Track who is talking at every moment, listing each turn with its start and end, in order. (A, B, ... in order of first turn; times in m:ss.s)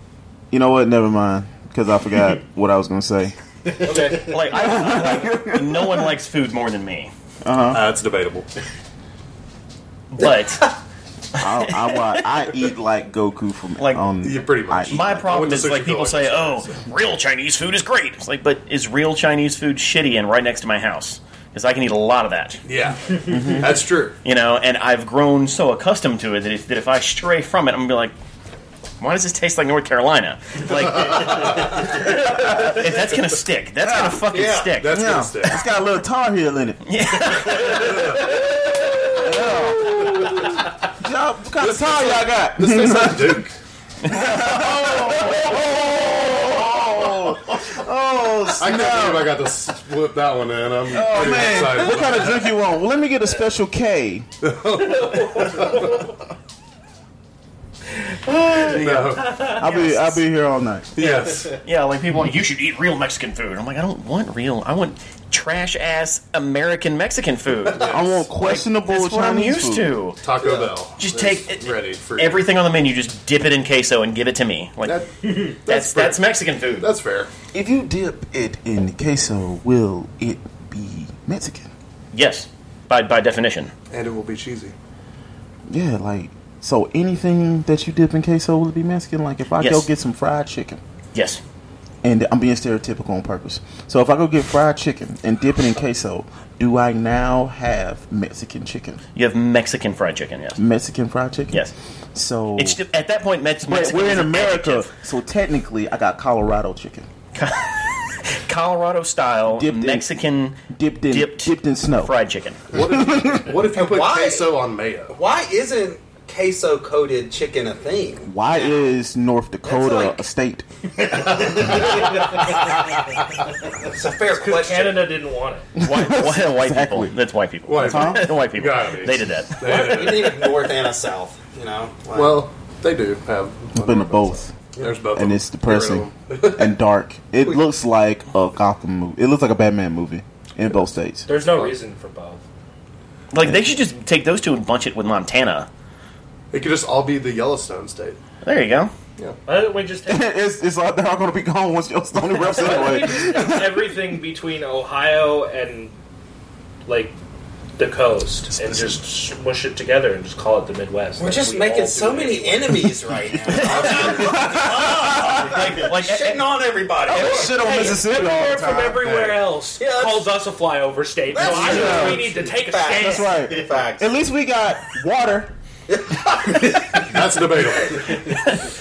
0:00.5-0:03.3 A
0:03.8-0:04.3 B
0:04.1-0:07.1 C
0:04.4-0:06.2 A
0:07.4-0:07.8 A
0:07.7-0:08.5 D
0:10.1-0:10.8 C
0:11.3-0:12.3 C
0:11.4-0:15.5 A
0:13.8-0:14.0 C
0:14.2-0:16.8 D
0:14.9-0:22.6 C
0:22.7-0:24.2 D
0:23.3-0:23.7 A
0:24.2-0:28.1 C
0:29.0-0:35.6 C
0:30.6-0:31.8 D
0:32.1-0:32.7 A
0:33.8-0:34.2 A
0:34.3-0:34.8 E
0:34.8-0:35.6 D
0:34.8-0:36.8 A
0:36.8-0:39.2 C
0:37.6-0:38.5 D
0:39.2-0:43.5 A
0:41.6-0:43.6 D
0:44.0-0:49.3 A
0:48.6-0:52.5 D
0:50.9-0:54.3 A
0:54.4-0:56.0 D
0:55.1-0:55.7 B
0:58.3-0:59.6 B
0:58.6-0:59.5 D
0:59.4-1:00.9 A
0:59.6-0:59.9 C
1:01.0-1:01.5 D
1:01.6-1:10.2 C
1:07.7-1:08.0 D
1:07.8-1:09.9 A
1:10.2-1:12.4 D
1:11.0-1:16.9 C
1:14.8-1:16.2 D
1:16.8-1:17.3 D
1:17.5-1:21.7 A
1:22.1-1:23.7 C
1:23.9-1:24.7 D
1:25.7-1:30.8 A
1:29.6-1:29.9 C
1:31.1-1:31.4 C
1:32.0-1:39.0 A
1:39.2-1:40.6 C
1:40.6-1:42.8 A
1:42.6-1:44.9 C
1:43.6-1:47.1 A
1:47.3-1:52.7 C
1:49.5-1:50.1 A
1:50.7-1:52.1 A
1:52.7-1:55.1 D
1:52.7-1:53.6 A
1:53.7-1:54.5 E
1:55.1-1:58.9 E
1:58.2-2:00.6 A
1:59.6-2:00.2 E
2:01.0-2:02.6 E
2:01.1-2:03.3 D
2:03.8-2:05.1 E
2:04.3-2:05.7 B
2:05.8-2:07.1 A
2:05.8-2:09.9 C
2:07.7-2:10.5 D
2:07.8-2:08.3 A
2:09.6-2:12.5 E
2:12.1-2:16.6 D
2:13.7-2:14.5 A
2:15.1-2:21.3 A
2:21.2-2:22.4 B
2:21.5-2:21.7 D
2:23.3-2:25.7 C
2:26.5-2:28.2 D
2:28.4-2:28.9 C
2:29.4-2:30.3 B
2:30.0-2:33.9 A
2:32.5-2:35.9 B
2:36.8-2:37.1 B
2:37.8-2:42.8 B
2:41.2-2:47.8 E
2:43.5-2:46.5 C
2:43.6-2:44.0 B
2:44.0-2:45.5 A
2:47.0-2:47.7 C
2:47.1-2:49.0 A
2:47.6-2:53.5 B
2:49.0-2:49.4 D
2:49.8-2:50.3 E
2:51.3-2:54.1 E
2:51.4-2:52.3 A
2:52.9-2:55.5 A
2:55.9-2:58.1 E
2:57.0-2:58.2 D
2:58.2-2:58.6 C